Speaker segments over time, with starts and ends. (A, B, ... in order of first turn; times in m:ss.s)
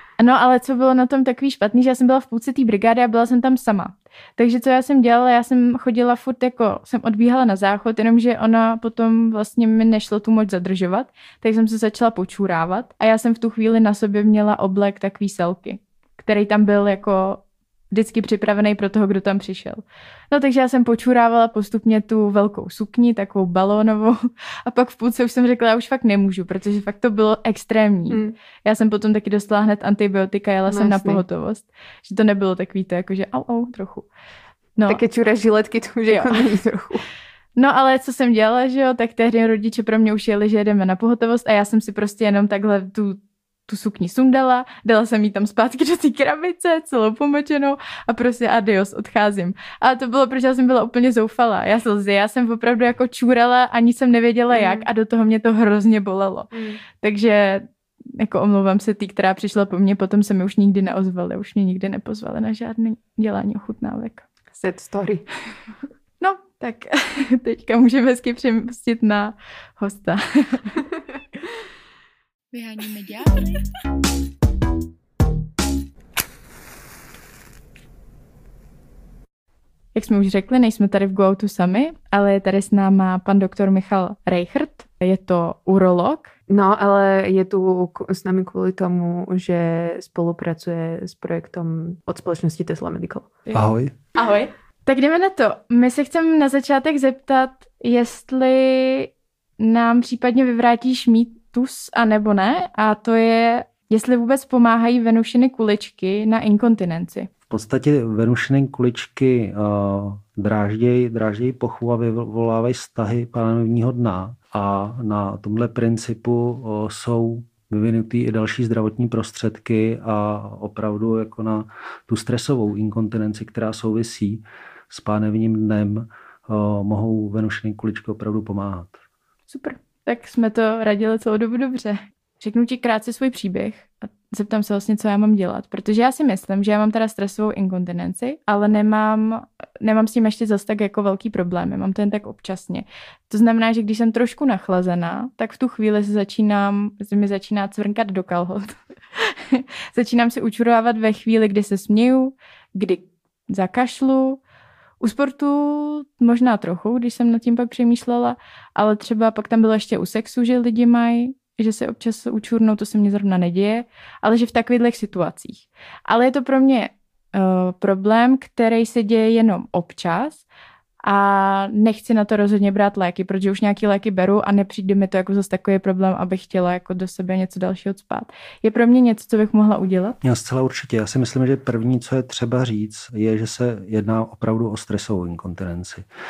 0:00.2-0:34.1 A
0:28.1-0:28.4 B
0:30.7-0:31.2 B
0:34.9-0:37.0 B
0:36.1-0:36.4 A
0:37.6-1:04.2 A
0:54.5-0:54.9 B
0:56.5-0:56.8 B
1:04.5-1:05.2 B
1:06.2-1:10.8 A
1:12.5-1:13.6 A
1:20.0-1:26.3 A
1:26.5-1:33.3 B
1:33.5-1:33.9 C
1:34.1-1:47.3 A
1:47.5-2:09.0 C
2:09.5-2:34.4 A
2:35.0-2:50.5 A
2:51.0-3:00.2 A
3:00.2-3:06.0 C